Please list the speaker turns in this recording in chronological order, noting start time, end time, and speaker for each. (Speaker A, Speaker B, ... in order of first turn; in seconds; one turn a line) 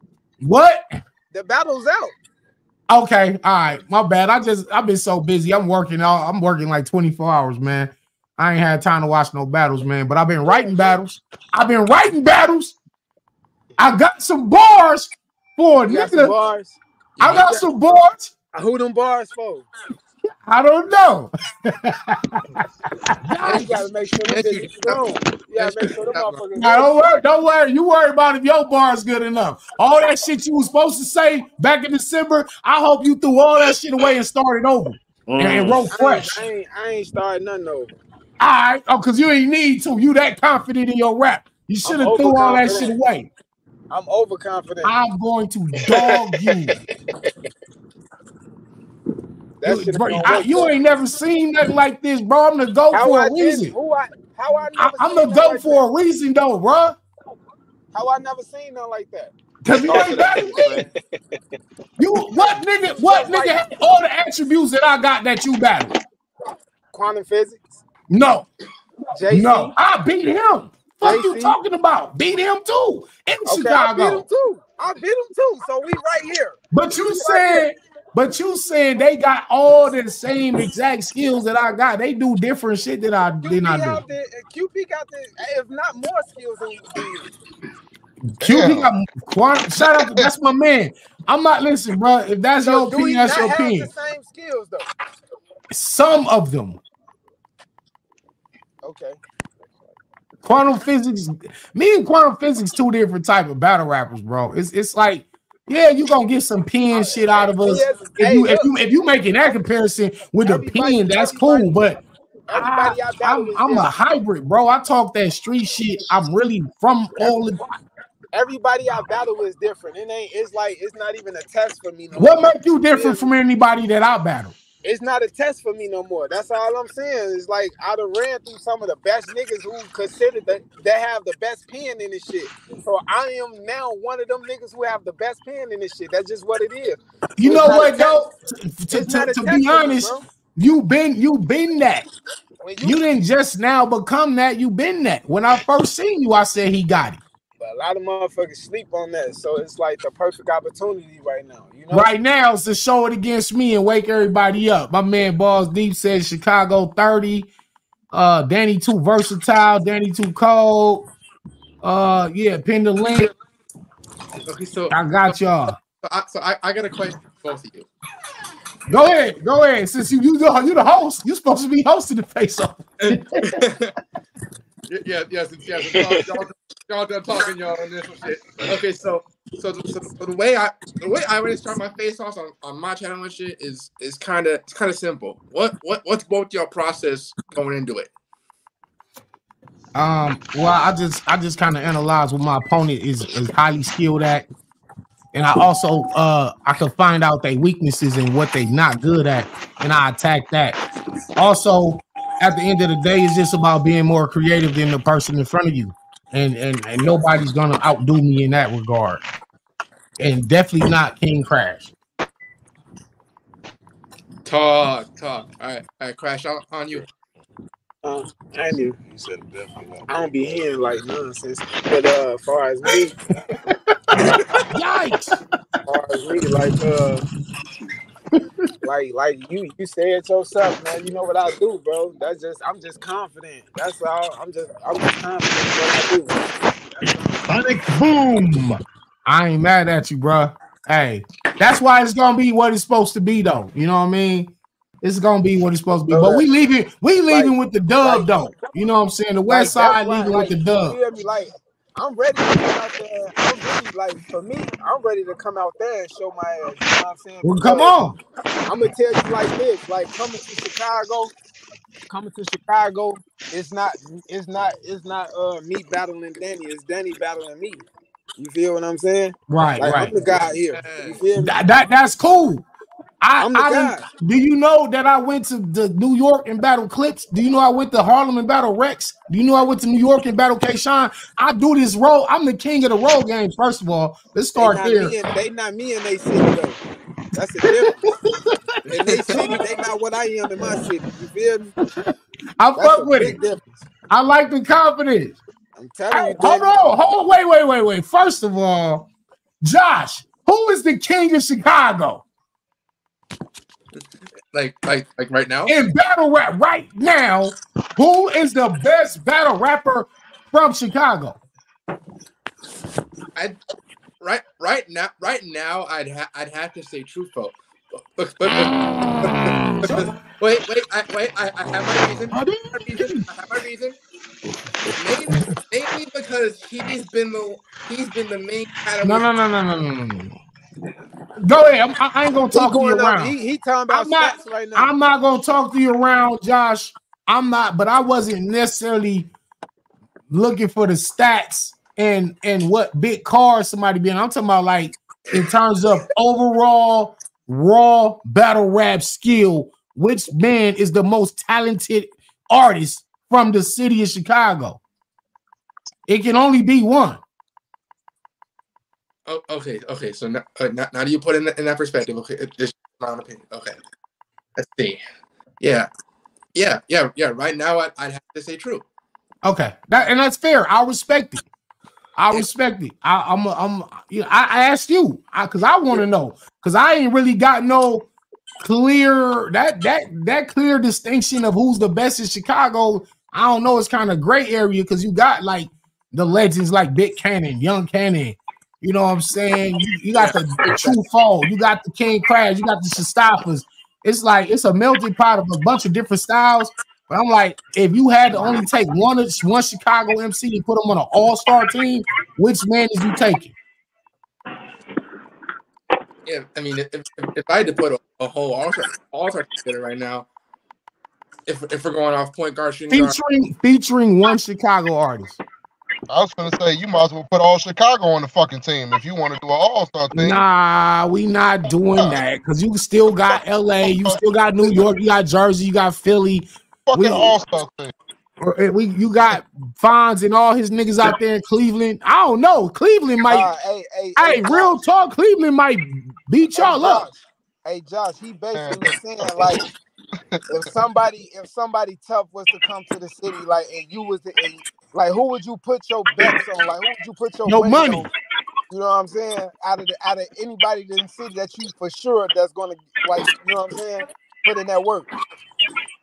Speaker A: 0.4-0.8
Speaker B: 1.3-2.1
Speaker A: 2.9-12.8
Speaker B: 10.4-11.0
Speaker A: 13.8-16.4
Speaker B: 15.8-17.6
Speaker A: 17.2-18.3
Speaker B: 18.5-19.7
Speaker A: 20.5-23.8
Speaker B: 23.4-26.9
Speaker C: 23.4-23.7
Speaker C: 24.2-26.3
Speaker A: 26.5-36.4
Speaker D: 35.3-35.9
Speaker B: 35.9-37.9
Speaker A: 38.4-43.3
Speaker B: 41.8-43.0
Speaker B: 43.9-44.9
Speaker A: 44.8-46.8
Speaker D: 45.8-46.7
Speaker B: 49.6-50.8
Speaker A: 49.6-53.7
Speaker B: 52.9-55.8
Speaker A: 54.8-57.0
Speaker B: 57.9-59.3
Speaker A: 59.6-60.9
Speaker D: 59.8-61.0
Speaker A: 62.0-65.9
Speaker B: 63.0-63.6
Speaker B: 66.9-67.8
Speaker A: 68.1-68.5
Speaker B: 69.1-69.7
Speaker A: 69.3-74.2
Speaker B: 71.0-71.6
Speaker B: 73.5-76.6
Speaker A: 76.7-84.0
Speaker B: 77.2-77.6
Speaker B: 83.4-87.3
Speaker A: 88.4-93.9
Speaker E: 88.4-88.9
Speaker E: 89.8-90.3
Speaker B: 92.6-94.8
Speaker A: 95.7-96.8
Speaker B: 98.8-99.2
Speaker A: 100.4-112.0
Speaker B: 107.6-108.9
Speaker B: 110.4-111.7
Speaker B: 112.5-113.9
Speaker A: 112.5-117.8
Speaker B: 118.3-123.3
Speaker A: 122.1-124.5
Speaker B: 124.8-138.2
Speaker A: 137.4-142.1
Speaker B: 138.9-140.2
Speaker B: 142.6-143.0
Speaker A: 142.8-147.2
Speaker B: 147.6-152.1
Speaker A: 151.9-157.5
Speaker A: 158.1-161.1
Speaker A: 161.8-163.3
Speaker C: 164.4-165.4
Speaker A: 164.9-165.8
Speaker C: 166.0-167.9
Speaker A: 168.9-173.6
Speaker C: 173.0-173.9
Speaker C: 174.9-188.1
Speaker D: 175.9-176.2
Speaker A: 189.9-194.4
Speaker A: 195.3-200.8
Speaker A: 201.3-209.2
Speaker A: 210.2-211.9
Speaker C: 214.4-217.1
Speaker B: 218.0-219.0
Speaker D: 219.0-220.1
Speaker B: 220.1-223.1
Speaker A: 223.6-225.4
Speaker B: 225.9-227.2
Speaker B: 228.8-237.4
Speaker A: 237.5-251.0
Speaker B: 246.1-246.5
Speaker B: 247.3-248.7
Speaker B: 249.4-258.0
Speaker A: 257.4-258.2
Speaker B: 258.6-261.3
Speaker B: 262.1-267.9
Speaker B: 268.4-271.6
Speaker A: 269.5-270.1
Speaker C: 270.7-271.2
Speaker A: 271.3-272.6
Speaker A: 273.2-285.2
Speaker B: 273.4-274.1
Speaker B: 284.5-286.8
Speaker B: 287.3-288.1
Speaker A: 287.7-288.8
Speaker C: 288.9-289.6
Speaker B: 288.9-291.7
Speaker A: 289.3-289.6
Speaker A: 291.8-293.4
Speaker B: 292.8-293.8
Speaker A: 294.1-295.4
Speaker B: 295.8-296.9
Speaker A: 296.1-299.1
Speaker A: 299.6-302.2
Speaker C: 304.5-305.8
Speaker A: 305.7-311.4
Speaker C: 314.2-324.0
Speaker A: 318.5-320.1
Speaker A: 322.3-323.3
Speaker C: 324.9-329.3
Speaker A: 325.3-325.5
Speaker A: 329.0-330.4
Speaker A: 331.4-333.3
Speaker B: 332.5-334.9
Speaker A: 333.9-339.3
Speaker A: 340.3-354.8
Speaker A: 356.1-357.2
Speaker C: 359.3-363.8
Speaker C: 364.6-365.0
Speaker C: 365.6-365.9
Speaker C: 366.5-368.8
Speaker A: 369.4-371.4
Speaker A: 372.2-378.1
Speaker A: 378.6-403.5
Speaker C: 390.1-391.0
Speaker C: 406.2-410.3
Speaker C: 411.5-413.2
Speaker A: 412.9-415.4
Speaker E: 416.1-420.4
Speaker A: 420.1-427.3
Speaker E: 423.9-424.9
Speaker E: 426.9-427.9
Speaker A: 428.4-433.5
Speaker B: 433.3-434.8
Speaker A: 434.2-437.1
Speaker B: 436.5-439.6
Speaker E: 438.5-439.5
Speaker E: 440.2-440.7
Speaker B: 440.5-448.1
Speaker A: 447.4-448.1
Speaker B: 448.7-455.1